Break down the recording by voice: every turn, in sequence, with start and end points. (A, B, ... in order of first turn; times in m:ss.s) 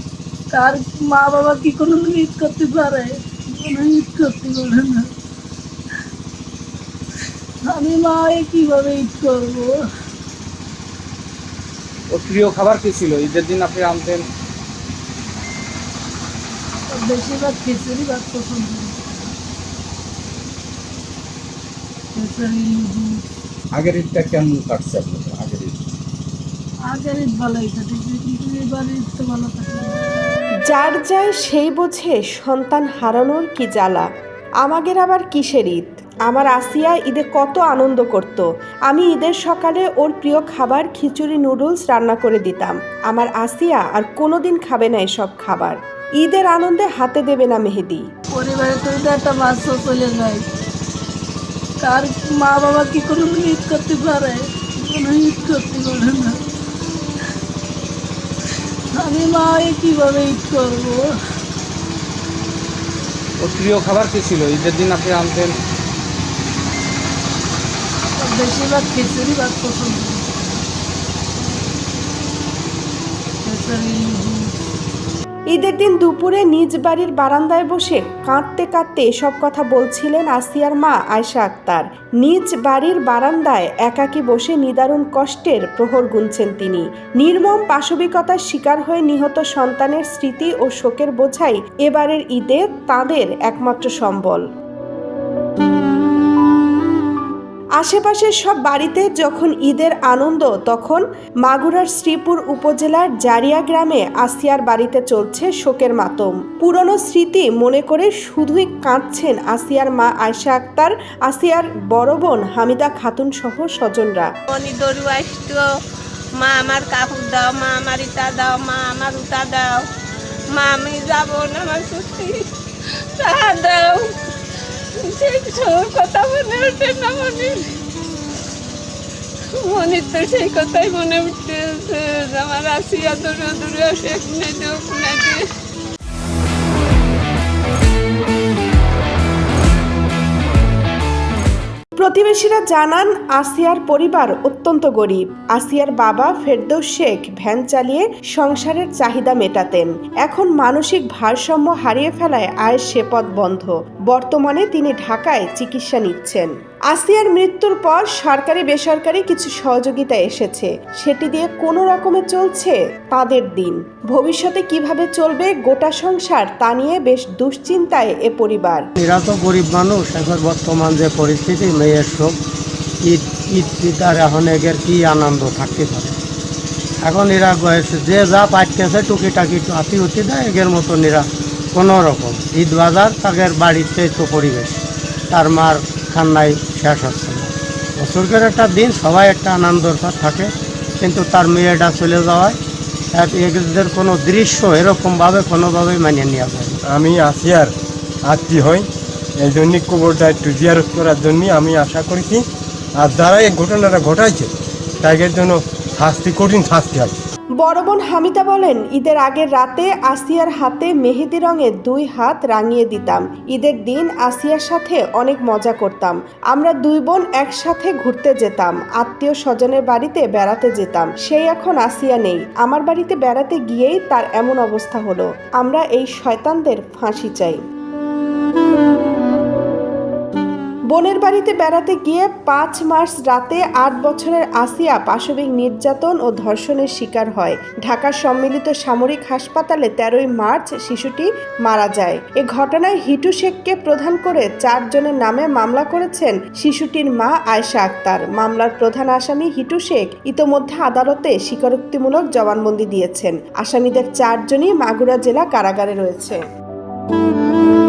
0:00.5-0:05.1 A
0:07.6-0:09.8 A
0:12.1-0:14.2 B
0:16.9-0:19.3 A
0:22.1-0:23.2 A
0:23.7-0:26.0 C
0:26.9-0:30.0 A
0:30.7-0:34.1 D
0:34.6-0:48.0 D
0:48.3-0:50.4 A
0:51.8-0:56.4 A
0:58.9-1:01.1 A
1:03.4-1:05.5 B
1:08.2-1:10.6 A
1:13.4-1:14.5 A
1:15.5-1:34.4 D
1:37.8-1:54.3 D
1:54.5-1:55.6 E
1:56.4-1:59.8 E
2:00.5-2:02.4 E
2:03.2-2:04.1 E
2:05.0-2:07.7 E
2:09.6-2:15.4 E
2:22.0-2:48.8 D
2:49.0-2:52.4 F
2:53.0-2:56.2 F
2:57.0-3:12.6 F
3:13.1-3:16.8 F
3:16.9-3:17.7 G
3:18.2-3:18.9 G
3:19.4-3:22.4 G
3:23.0-3:24.5 G
3:25.0-3:27.1 G
3:27.6-3:47.6 D
3:50.9-4:16.4 D